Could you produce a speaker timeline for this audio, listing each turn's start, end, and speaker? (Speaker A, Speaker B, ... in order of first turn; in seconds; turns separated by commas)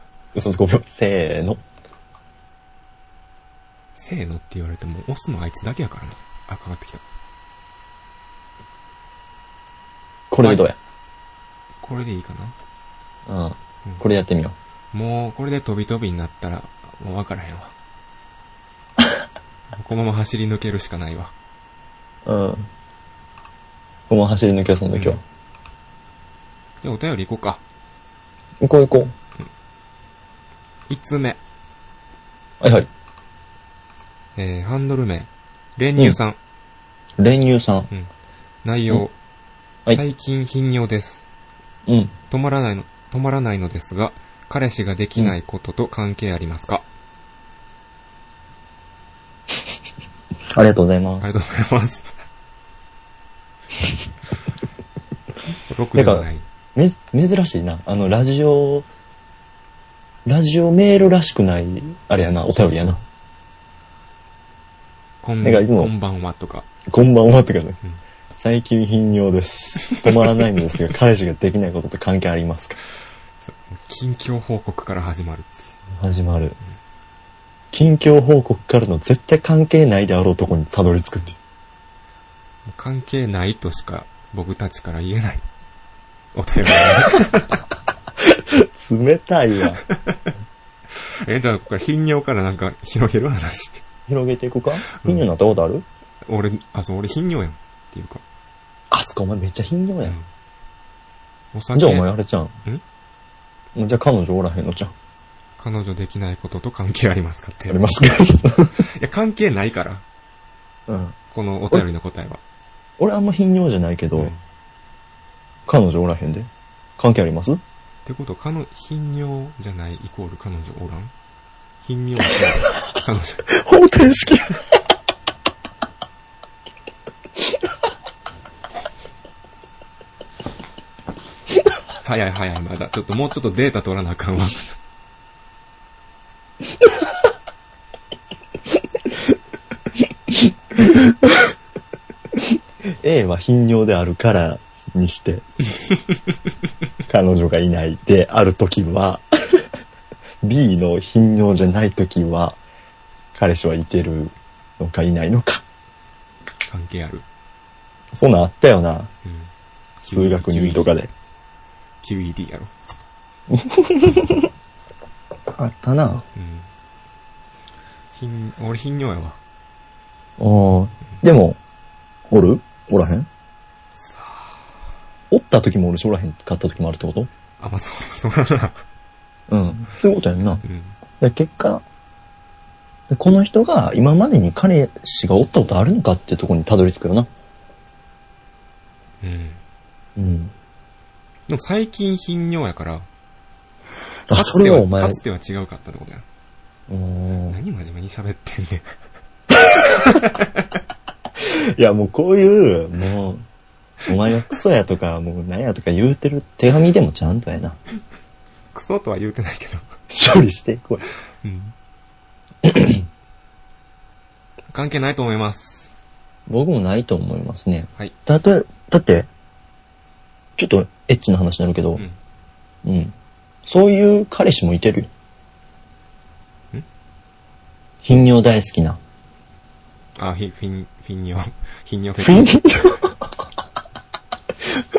Speaker A: 0.3-1.6, Speaker B: 4.0-7.0, Speaker A: 10.3-10.8, Speaker B: 11.8-12.6, Speaker A: 13.3-14.6, Speaker B: 14.9-17.7, Speaker B: 19.7-21.3, Speaker A: 22.3-22.7, Speaker A: 24.1-25.2, Speaker B: 24.9-25.2, Speaker B: 26.8-27.6, Speaker A: 28.6-29.1, Speaker B: 30.9-31.4, Speaker A: 32.6-32.9, Speaker B: 34.4-36.4, Speaker A: 37.2-37.9, Speaker B: 38.6-39.1, Speaker B: 39.9-41.3, Speaker A: 41.9-42.1, Speaker B: 42.3-46.9, Speaker A: 50.5-51.3, Speaker B: 51.2-52.1, Speaker B: 55.7-56.5, Speaker A: 56.0-58.9, Speaker A: 60.2-63.0, Speaker B: 62.5-62.9, Speaker B: 65.2-66.7, Speaker A: 65.4-65.9, Speaker A: 66.9-67.8, Speaker A: 68.4-72.8, Speaker B: 73.4-75.7, Speaker A: 75.9-76.6, Speaker A: 77.7-81.4, Speaker B: 82.7-85.4, Speaker B: 86.3-87.6, Speaker A: 88.2-89.8, Speaker B: 89.9-90.3, Speaker B: 91.2-93.8, Speaker A: 94.1-95.8, Speaker B: 94.9-95.2, Speaker B: 96.2-98.2, Speaker A: 98.9-100.2, Speaker B: 101.5-102.1, Speaker A: 101.8-102.6, Speaker A: 103.8-104.9, Speaker B: 105.6-107.8, Speaker A: 107.7-108.8, Speaker B: 108.8-110.0, Speaker A: 110.9-111.2, Speaker B: 111.3-112.4, Speaker A: 113.0-114.3, Speaker B: 114.2-114.4, Speaker A: 115.7-117.6, Speaker B: 118.1-121.1, Speaker B: 121.8-123.5, Speaker A: 123.5-124.7, Speaker B: 132.0-134.8, Speaker A: 140.3-141.5, Speaker A: 142.9-145.5, Speaker B: 145.7-146.3, Speaker A: 147.1-149.7, Speaker A: 150.4-152.6, Speaker A: 153.3-155.6, Speaker B: 156.7-157.2, Speaker A: 158.1-159.1, Speaker B: 159.2-159.5, Speaker B: 160.0-161.0, Speaker A: 160.1-161.1, Speaker B: 162.0-162.7, Speaker A: 163.5-164.5, Speaker A: 165.6-166.2, Speaker B: 166.3-166.7, Speaker B: 168.2-169.4, Speaker A: 170.4-171.6, Speaker A: 172.3-173.3, Speaker B: 173.9-174.6, Speaker A: 175.3-177.3, Speaker B: 177.6-178.8, Speaker A: 179.5-180.6, Speaker B: 180.6-180.9, Speaker A: 181.2-181.8, Speaker A: 183.1-187.3, Speaker B: 189.2-189.6, Speaker A: 190.2-190.5, Speaker B: 191.5-193.1, Speaker A: 194.3-195.2, Speaker B: 194.3-196.2, Speaker A: 196.9-197.6, Speaker B: 197.5-198.9, Speaker A: 199.7-200.1, Speaker B: 200.0-200.6, Speaker A: 201.4-203.5, Speaker A: 204.1-207.8, Speaker B: 208.7-209.9, Speaker A: 210.1-211.0, Speaker B: 211.4-211.7, Speaker A: 212.6-213.1, Speaker B: 214.7-215.9, Speaker A: 216.5-219.3, Speaker A: 220.6-222.1, Speaker A: 222.8-223.1, Speaker A: 223.7-225.1, Speaker A: 228.0-229.0, Speaker B: 230.2-232.6, Speaker A: 232.2-233.3